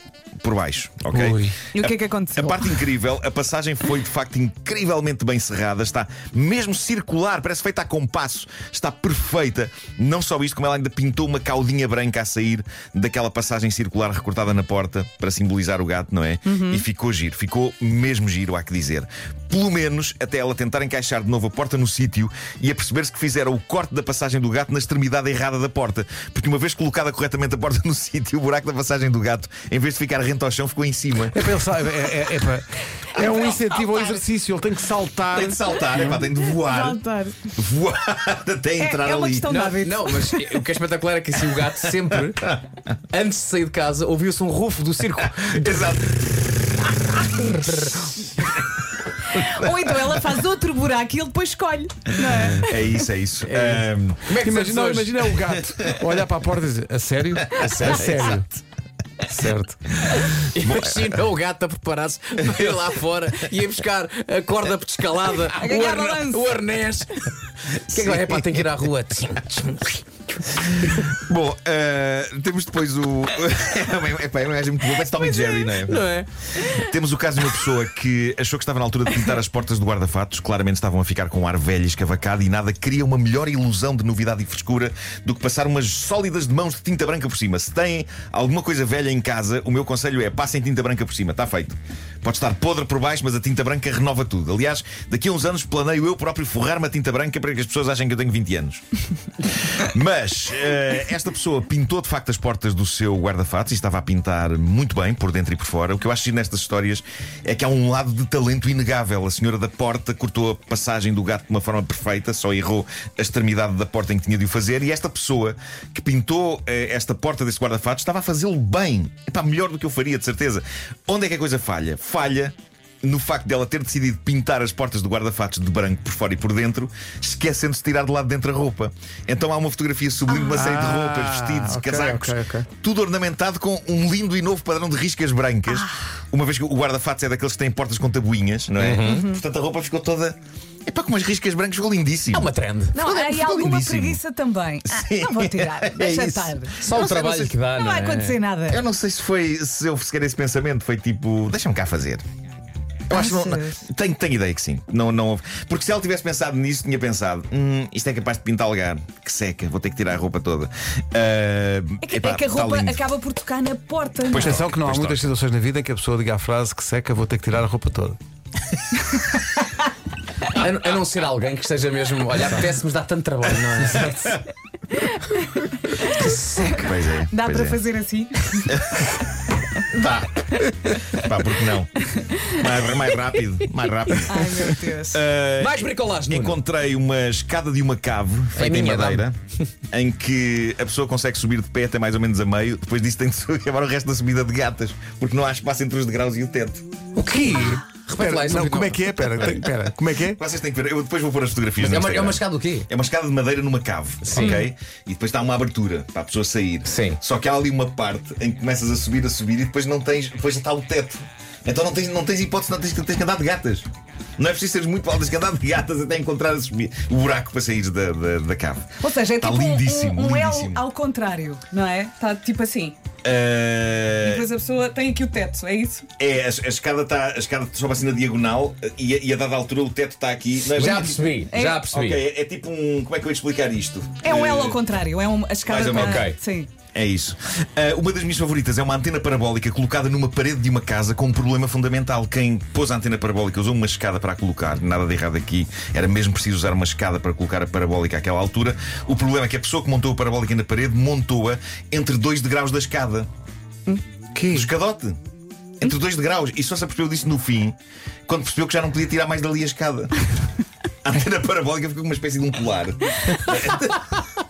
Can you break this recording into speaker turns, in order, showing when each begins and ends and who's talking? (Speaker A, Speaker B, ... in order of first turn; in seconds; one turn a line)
Speaker A: 0.4-31.5
Speaker B: 1.1-1.6
Speaker C: 1.7-2.7
Speaker C: 16.5-16.8
Speaker B: 31.3-35.8
Speaker C: 33.4-34.1
Speaker A: 35.3-37.0
Speaker C: 36.1-37.5
Speaker A: 37.6-39.5
Speaker C: 38.8-40.6
Speaker D: 39.5-46.0
Speaker A: 45.2-46.5
Speaker D: 47.1-48.4
Speaker C: 49.3-53.0
Speaker A: 52.6-54.4
Speaker D: 53.4-55.3
Speaker B: 54.4-58.5
Speaker A: 57.6-58.4
Speaker D: 57.8-58.2
Speaker B: 59.2-59.8
Speaker D: 60.2-71.1
Speaker A: 60.6-61.1
Speaker C: 65.5-66.5
Speaker A: 67.9-68.5
Speaker A: 71.1-76.1
Speaker D: 75.8-76.3
Speaker A: 76.6-98.8
Speaker A: 99.4-144.2
Speaker C: 130.3-130.7
Speaker B: 130.5-132.7
Speaker C: 135.7-136.0
Speaker D: 138.8-139.2
Speaker C: 139.0-139.4
Speaker D: 142.3-143.0
Speaker C: 142.9-146.8
Speaker A: 144.9-147.6
Speaker D: 146.8-148.4
Speaker C: 147.7-148.8
Speaker A: 148.7-152.2
Speaker A: 153.1-163.0
Speaker C: 153.1-153.8
Speaker C: 162.0-164.6
Speaker A: 164.3-165.3
Speaker B: 164.4-168.2
Speaker D: 170.5-174.2
Speaker A: 174.0-174.3
Speaker C: 174.9-178.8
Speaker A: 176.6-177.8
Speaker A: 178.7-179.1
Speaker A: 179.9-189.4
Speaker C: 182.1-182.6
Speaker C: 184.2-185.2
Speaker D: 185.6-186.6
Speaker D: 188.6-189.3
Speaker A: 189.9-196.9
Speaker B: 197.2-200.4
Speaker D: 197.2-199.6
Speaker A: 200.2-220.8
Speaker D: 201.8-202.9
Speaker D: 204.2-204.6
Speaker C: 204.4-204.6
Speaker D: 206.8-207.2
Speaker C: 219.0-223.0
Speaker A: 223.2-224.5
Speaker C: 224.2-226.1
Speaker A: 226.2-234.8
Speaker D: 230.6-232.2
Speaker C: 231.5-231.9
Speaker C: 234.2-236.7
Speaker A: 235.7-236.3
Speaker D: 235.9-236.4
Speaker A: 236.9-253.3
Speaker B: 254.3-254.7
Speaker A: 254.5-255.2
Speaker A: 255.8-260.2
Speaker A: 261.0-264.2